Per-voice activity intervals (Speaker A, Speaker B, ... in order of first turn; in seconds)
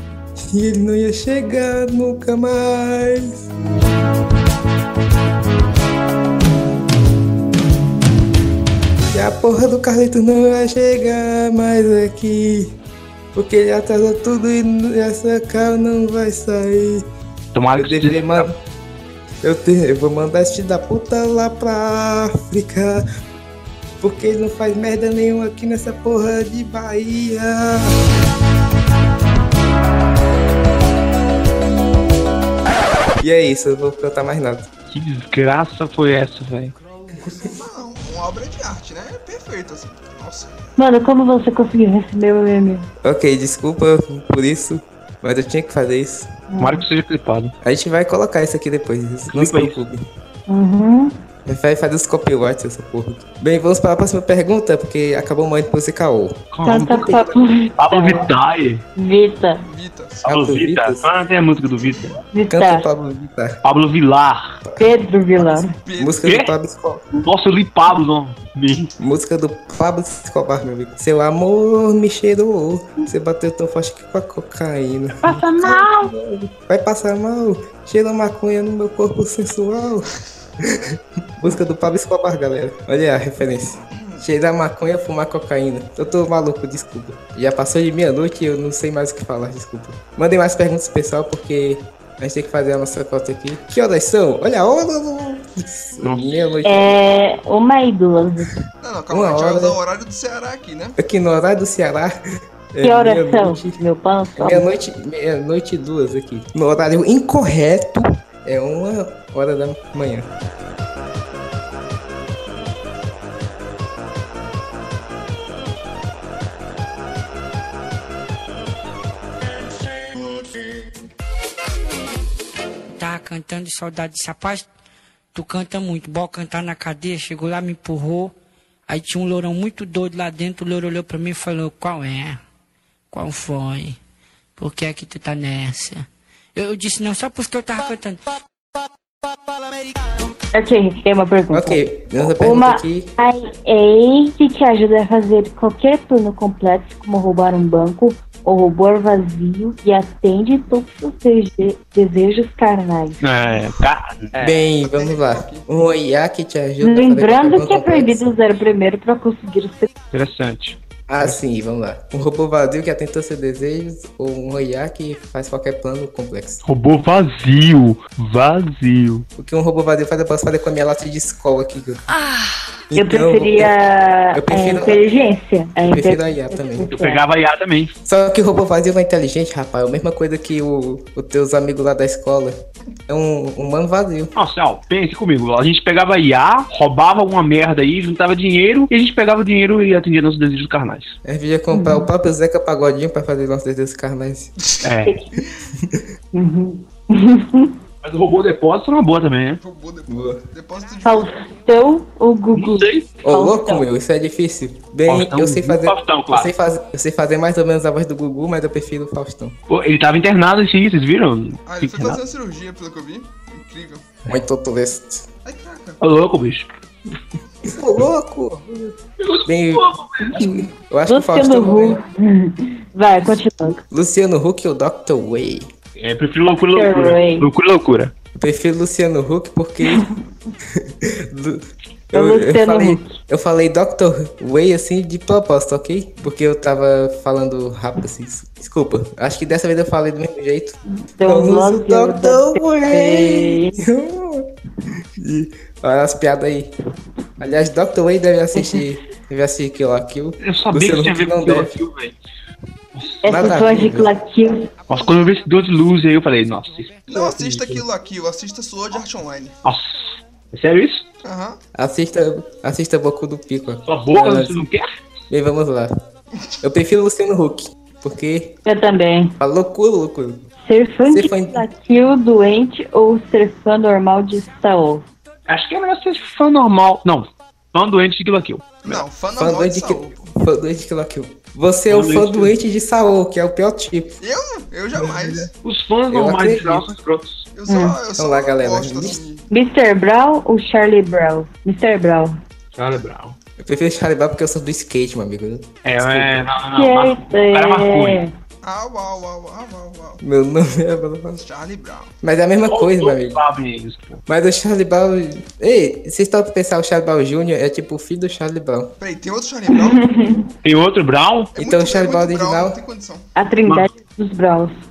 Speaker A: 0.5-3.5, 9.1-12.8, 13.3-17.1, 17.8-18.6, 19.4-23.0, 24.0-28.0, 33.2-34.7, 43.0-46.3, 47.6-50.0, 51.5-57.3, 60.2-61.1, 62.5-63.6, 66.0-67.1, 69.0-80.8, 81.4-97.0, 99.1-99.8, 101.0-102.2, 102.7-103.8, 104.4-110.3, 141.5-143.1, 154.4-158.3, 161.1-166.6, 169.4-172.0, 172.9-173.7, 174.3-175.0, 175.9-176.9, 178.1-182.6, 183.1-184.3, 191.2-194.5, 200.1-200.4, 203.2-209.6, 214.3-215.3, 217.7-222.0, 223.9-225.7, 228.4-230.1, 230.7-244.5, 245.2-246.7, 247.4-251.7, 253.2-254.1, 261.7-264.7, 265.3-265.9, 266.6-268.6, 269.4-270.4, 271.1-271.6, 279.4-284.2, 286.1-286.9, 288.2-289.2, 293.6-296.4, 300.2-301.4, 302.2-303.4, 304.3-308.9, 311.6-312.8
Speaker B: 17.5-18.5, 34.9-36.7, 46.6-47.5, 49.3-49.8, 56.5-57.2, 57.8-58.8, 60.3-62.2, 63.6-64.6, 66.2-66.5, 67.2-68.9, 75.2-76.1, 96.0-96.3, 153.2-154.4, 160.1-161.4, 166.6-169.2, 176.9-177.9, 184.3-191.2, 194.8-195.2, 198.0-199.6, 202.5-203.1, 205.1-206.5, 209.7-212.2, 216.0-216.7, 219.2-220.7, 226.0-228.1, 250.4-252.2, 252.9-253.2, 254.9-257.8, 259.6-261.1, 263.9-264.9, 275.5-279.0, 281.9-282.5, 285.0-287.5, 292.8-293.4, 295.9-298.2, 302.6-304.2, 310.6-311.5
Speaker C: 37.4-40.5, 59.7-60.3, 65.5-66.3, 98.8-101.0, 154.8-155.7, 195.3-195.7, 199.6-201.3, 211.7-214.1, 215.4-216.0, 257.1-259.6, 261.2-261.6, 278.8-280.3, 284.2-285.5, 287.5-289.5, 298.6-300.2, 301.4-302.1, 309.0-310.1, 311.6-313.3
Speaker D: 40.8-42.9, 46.5-46.8, 50.5-51.1, 56.6-58.3, 59.0-59.6, 62.3-62.9, 64.8-65.7, 96.7-98.5, 102.8-104.7, 140.5-153.2, 156.8-159.9, 173.0-177.2, 191.7-192.1, 196.3-197.7, 201.0-203.9, 221.1-223.8, 226.7-227.5, 232.1-233.2, 240.9-243.8, 248.6-248.8, 253.2-254.7, 268.6-269.3, 270.6-275.1, 287.7-288.0, 289.5-292.4, 296.7-298.3, 309.7-310.5, 313.4-314.8
Speaker E: 122.9-124.7, 125.3-128.3, 128.9-132.4, 133.1-134.0, 134.6-138.2